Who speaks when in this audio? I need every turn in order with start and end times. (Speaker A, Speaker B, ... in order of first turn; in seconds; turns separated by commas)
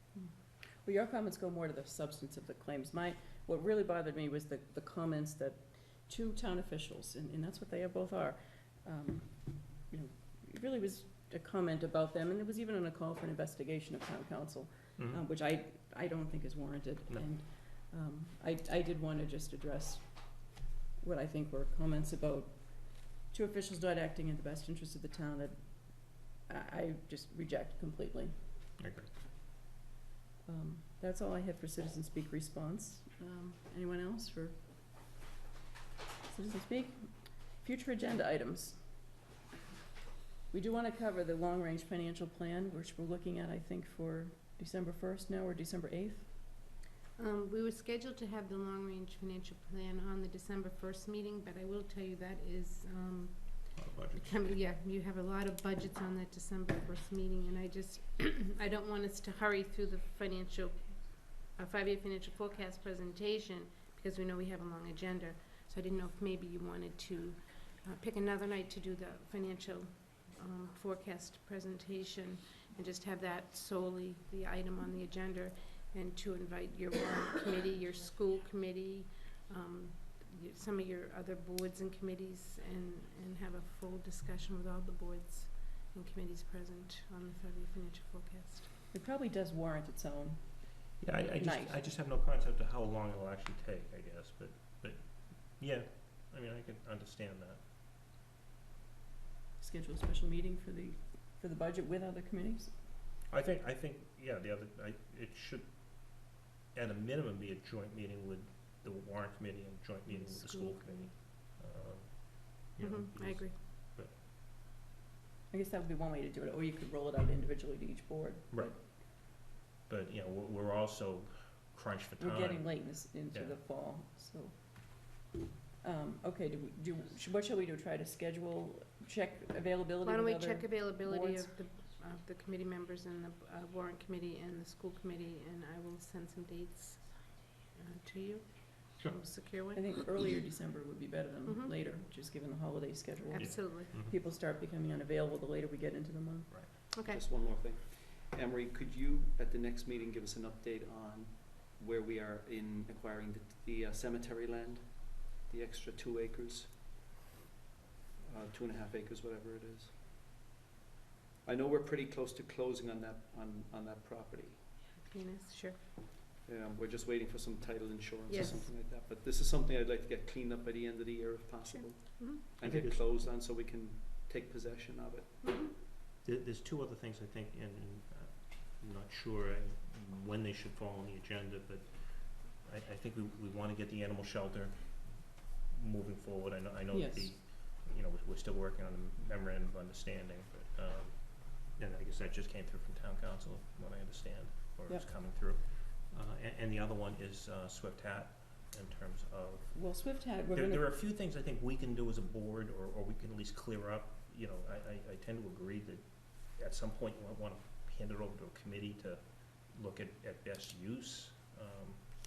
Speaker A: 0.8-28.3, Speaker B: 28.8-29.1, Speaker A: 30.5-34.5, Speaker A: 36.3-38.8, Speaker A: 40.5-46.3, Speaker C: 47.2-88.8, Speaker B: 53.8-54.4, Speaker A: 88.9-91.8, Speaker B: 91.0-97.6, Speaker A: 99.6-102.8, Speaker B: 103.3-114.2, Speaker C: 110.1-111.2, Speaker C: 112.8-113.6, Speaker A: 115.5-118.8, Speaker B: 118.5-123.6, Speaker A: 122.2-125.2, Speaker A: 125.8-131.5, Speaker C: 130.0-140.0, Speaker A: 139.7-146.9, Speaker C: 141.4-141.7, Speaker C: 143.3-144.0, Speaker B: 143.4-144.1, Speaker C: 146.9-147.2, Speaker D: 147.1-156.8, Speaker D: 158.2-159.9, Speaker D: 161.4-164.7, Speaker C: 165.0-165.8, Speaker D: 166.4-175.7, Speaker C: 168.3-168.7, Speaker C: 171.8-172.4, Speaker B: 172.6-173.1, Speaker C: 175.4-175.7, Speaker B: 176.2-199.8, Speaker A: 186.9-187.3, Speaker A: 199.7-200.9, Speaker B: 200.5-212.0